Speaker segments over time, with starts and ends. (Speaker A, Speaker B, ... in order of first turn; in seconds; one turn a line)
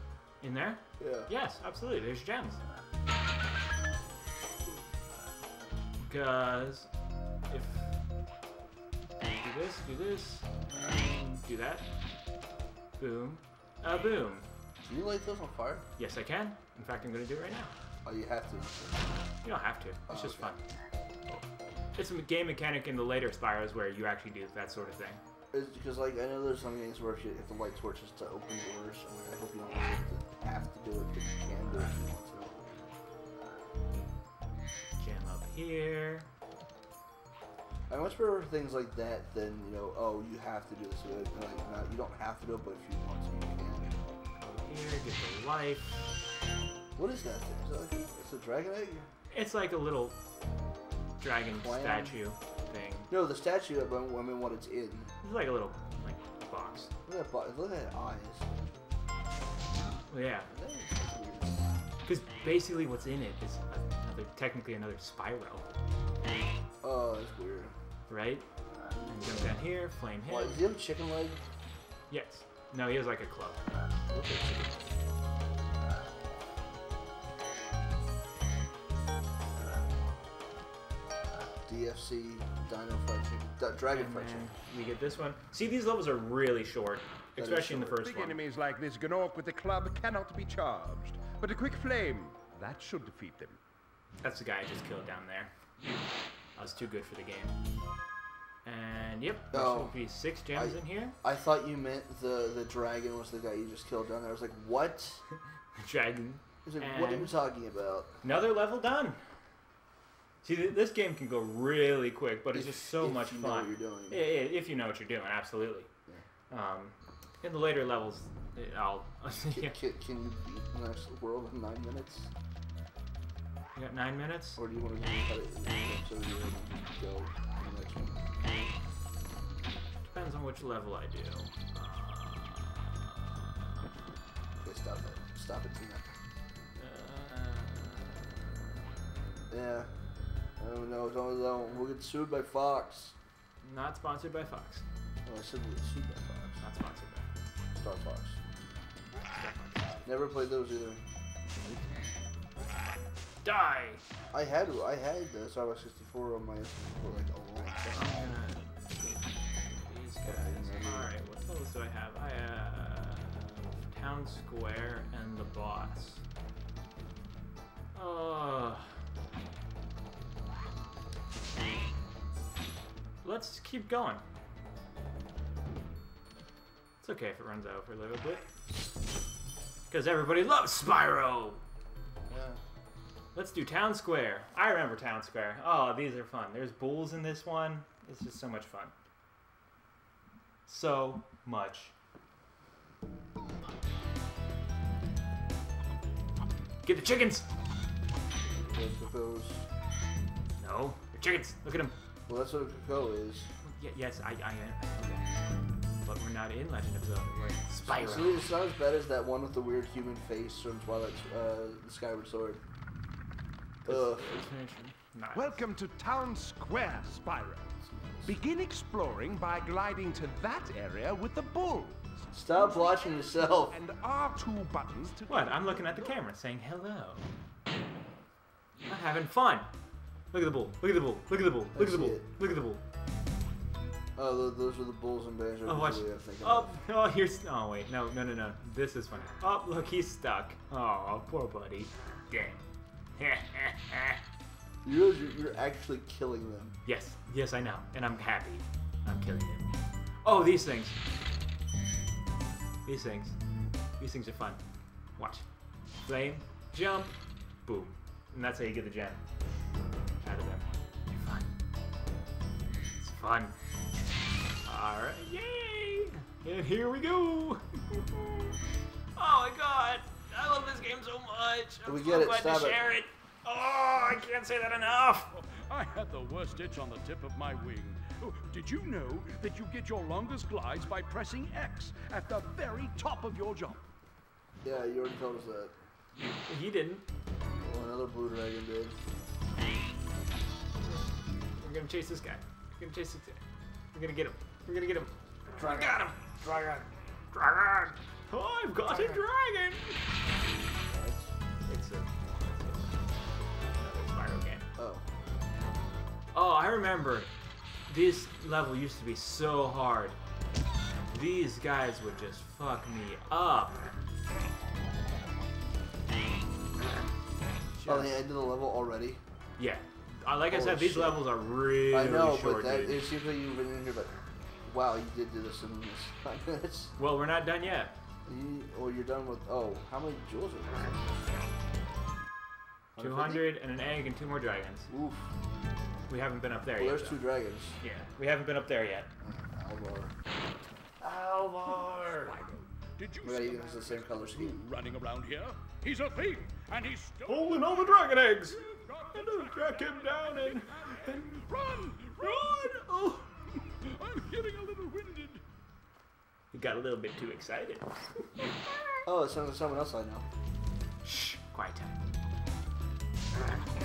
Speaker A: 0.4-2.6
Speaker B: 1.0-1.3
Speaker A: 6.0-6.9
Speaker A: 7.5-7.9
Speaker A: 9.4-11.9
Speaker A: 13.0-14.5
Speaker B: 14.8-15.9
Speaker A: 16.0-17.7
Speaker B: 18.1-19.2
Speaker A: 19.4-20.6
Speaker B: 20.1-20.6
Speaker A: 21.9-25.2
Speaker B: 25.5-32.9
Speaker A: 35.0-36.3
Speaker B: 37.9-44.0
Speaker A: 44.4-46.0
Speaker B: 47.0-49.1
Speaker A: 49.3-50.2
Speaker A: 51.2-53.1
Speaker B: 51.5-52.2
Speaker B: 53.1-55.1
Speaker A: 55.2-56.9
Speaker B: 57.1-58.5
Speaker A: 60.1-60.5
Speaker B: 60.5-61.7
Speaker A: 62.0-65.6
Speaker B: 66.8-67.7
Speaker A: 68.1-68.5
Speaker A: 69.0-70.6
Speaker B: 70.2-71.4
Speaker A: 72.1-73.6
Speaker B: 74.1-74.8
Speaker B: 81.7-84.5
Speaker A: 83.9-88.4
Speaker B: 87.4-88.0
Speaker C: 87.9-93.6
Speaker A: 94.2-95.5
Speaker A: 96.6-97.6
Speaker A: 98.6-101.1
Speaker B: 99.5-100.0
Speaker B: 100.5-105.2
Speaker A: 105.8-107.4
Speaker B: 106.6-108.2
Speaker A: 108.2-109.2
Speaker A: 110.4-115.9
Speaker B: 112.5-114.2
Speaker A: 116.5-119.8
Speaker B: 119.5-122.3
Speaker A: 123.7-124.6
Speaker B: 124.6-128.3
Speaker A: 130.1-133.9
Speaker B: 134.6-136.2
Speaker A: 136.8-138.3
Speaker B: 139.5-139.9
Speaker B: 140.6-143.1
Speaker A: 143.6-144.8
Speaker B: 145.2-146.6
Speaker A: 146.6-147.3
Speaker B: 147.7-148.4
Speaker A: 149.3-150.1
Speaker B: 150.1-151.0
Speaker A: 151.5-152.0
Speaker A: 152.6-154.0
Speaker B: 154.3-158.2
Speaker A: 157.9-166.2
Speaker B: 160.2-161.1
Speaker A: 167.9-168.9
Speaker A: 173.2-174.2
Speaker A: 177.0-178.4
Speaker A: 179.9-181.6
Speaker B: 182.3-182.6
Speaker A: 183.3-188.9
Speaker A: 190.7-191.9
Speaker A: 196.8-197.5
Speaker B: 198.4-199.7
Speaker A: 200.6-201.9
Speaker B: 202.3-203.5
Speaker A: 203.6-205.3
Speaker A: 206.0-208.5
Speaker B: 207.8-212.6
Speaker B: 213.8-214.4
Speaker A: 213.8-215.6
Speaker C: 215.3-226.2
Speaker B: 217.8-218.4
Speaker B: 222.3-223.8
Speaker A: 225.3-227.3
Speaker A: 228.9-229.7
Speaker A: 230.3-232.8
Speaker B: 231.7-232.3
Speaker B: 234.2-236.8
Speaker A: 235.7-242.6
Speaker A: 243.2-244.2
Speaker B: 244.8-246.8
Speaker A: 246.8-249.7
Speaker A: 250.2-251.0
Speaker A: 252.8-253.4
Speaker A: 254.0-254.6
Speaker A: 255.2-255.4
Speaker A: 256.1-259.2
Speaker A: 260.2-261.5
Speaker A: 262.9-263.6
Speaker A: 264.6-268.5
Speaker A: 269.1-275.3
Speaker B: 271.9-272.8
Speaker D: 275.3-283.8
Speaker B: 284.6-285.8
Speaker A: 286.5-287.0
Speaker B: 287.6-289.0
Speaker A: 291.6-293.4
Speaker A: 293.9-300.0
Speaker B: 295.5-296.8
Speaker B: 298.9-299.2
Speaker B: 300.6-301.3
Speaker A: 301.7-304.7
Speaker B: 304.8-305.1
Speaker A: 306.3-307.3
Speaker A: 307.9-310.2
Speaker A: 311.1-313.9
Speaker A: 317.8-318.2
Speaker B: 317.8-319.2
Speaker A: 319.6-323.0
Speaker B: 320.5-321.2
Speaker B: 321.9-326.9
Speaker A: 327.0-327.9
Speaker B: 328.2-331.2
Speaker B: 332.9-333.5
Speaker A: 333.0-334.9
Speaker B: 334.9-335.3
Speaker A: 336.1-337.2
Speaker B: 336.8-337.8
Speaker A: 337.8-339.1
Speaker B: 339.2-340.1
Speaker D: 341.5-355.4
Speaker B: 343.2-344.6
Speaker A: 347.2-351.4
Speaker A: 352.2-353.2
Speaker A: 356.5-358.9
Speaker B: 359.1-360.2
Speaker A: 361.0-362.0